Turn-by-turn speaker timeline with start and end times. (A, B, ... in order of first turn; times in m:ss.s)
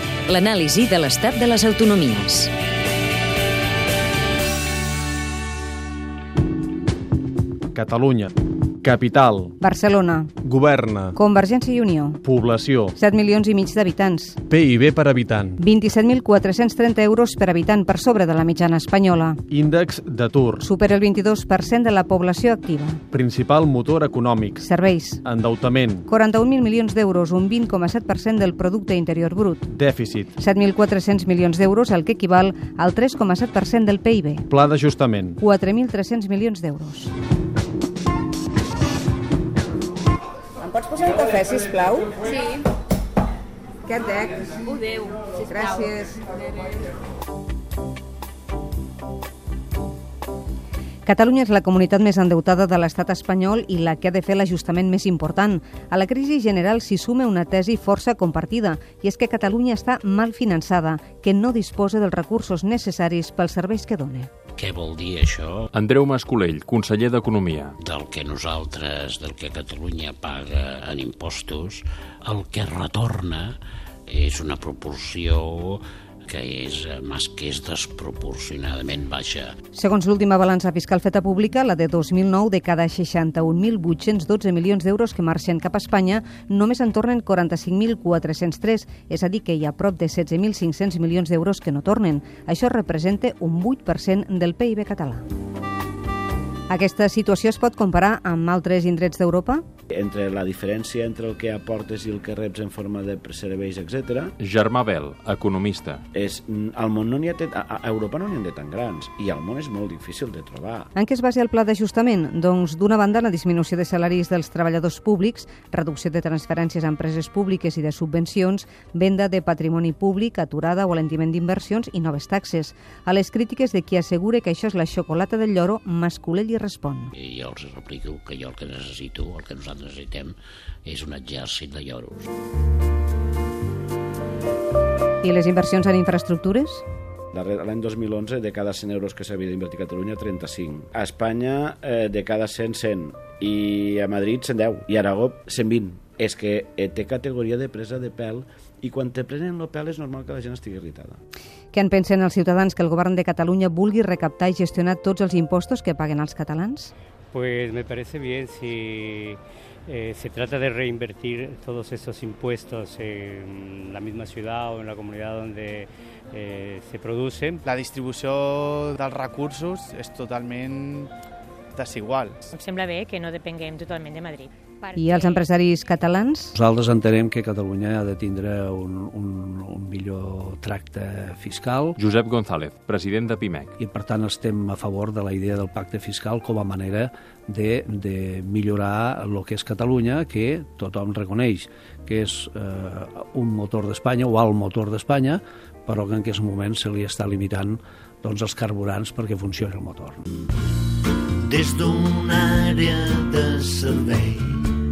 0:00.3-0:02.5 A
0:07.7-0:09.5 B
0:09.6-0:10.3 C
0:10.4-0:11.1 B
0:11.1-0:12.2 C
0:12.2-0:12.9 B
0:13.0-0:14.4 C
0:14.5-0:15.6 B
0:15.6-0:19.4 C
0:19.5-0:20.7 B
0:20.6-0:23.0 C
0:23.1-0:24.6 B
0:24.6-0:25.2 C
0:25.2-0:26.0 B
0:26.1-0:29.7 C
0:29.7-0:30.3 B
0:30.4-0:34.5 C
0:34.5-0:35.4 B
0:35.4-0:37.1 C
0:40.6-0:42.2 C
0:43.9-0:44.6 C
0:45.2-0:46.2 C
0:51.0-1:04.3 C
1:04.6-1:05.7 D
1:05.7-1:07.8 E
1:07.8-1:13.6 D
1:14.1-1:19.5 D
1:19.7-1:35.2 C
1:36.7-1:39.6 C
1:39.9-1:44.3 F
1:44.4-1:46.0 E
1:46.1-1:50.9 F
1:51.0-2:07.1 C
2:07.1-2:10.3 D
2:10.8-2:12.3 D
2:15.2-2:16.8 C
2:17.3-2:31.2 F
2:31.7-2:36.9 C
2:37.3-2:47.6 G
2:47.6-2:51.1 H
2:51.8-2:52.4 H
2:52.5-2:55.5 I
2:54.9-2:56.5 C
2:56.5-3:02.0 J
3:02.0-3:03.7 E
3:03.8-3:20.2 J
3:21.5-3:24.7 K